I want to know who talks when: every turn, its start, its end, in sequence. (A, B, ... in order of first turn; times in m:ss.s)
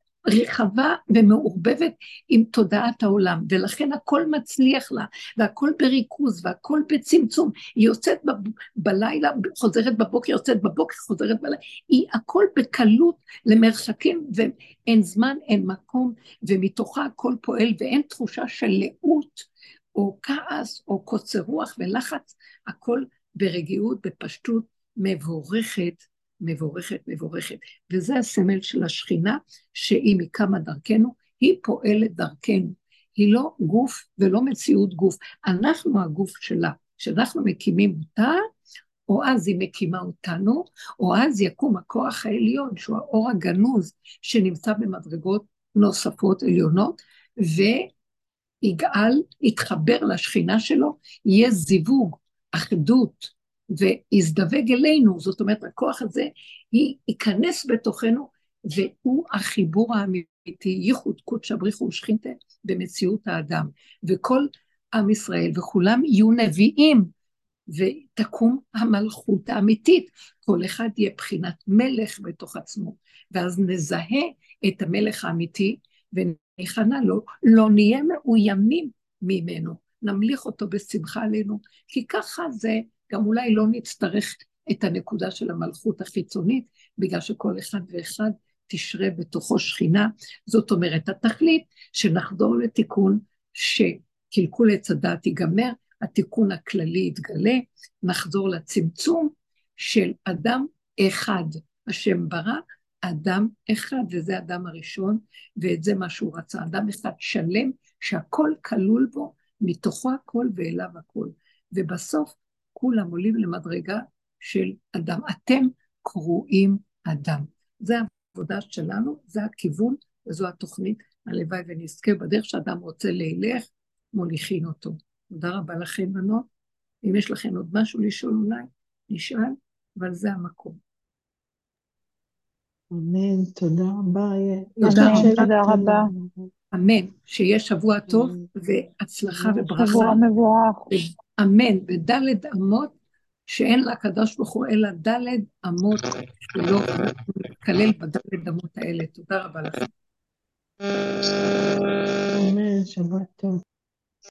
0:00.3-0:38.4 A
0:39.1-0:47.9 A
0:48.6-1:07.1 A
1:07.7-2:06.5 A
2:07.0-2:10.8 A
2:12.9-2:16.5 B
2:14.8-2:15.6 A
2:14.9-2:16.1 C
2:16.7-2:20.2 A
2:19.4-2:20.0 B
2:19.8-2:21.0 C
2:20.9-2:23.0 A
2:23.5-2:29.9 A
2:32.3-2:33.6 B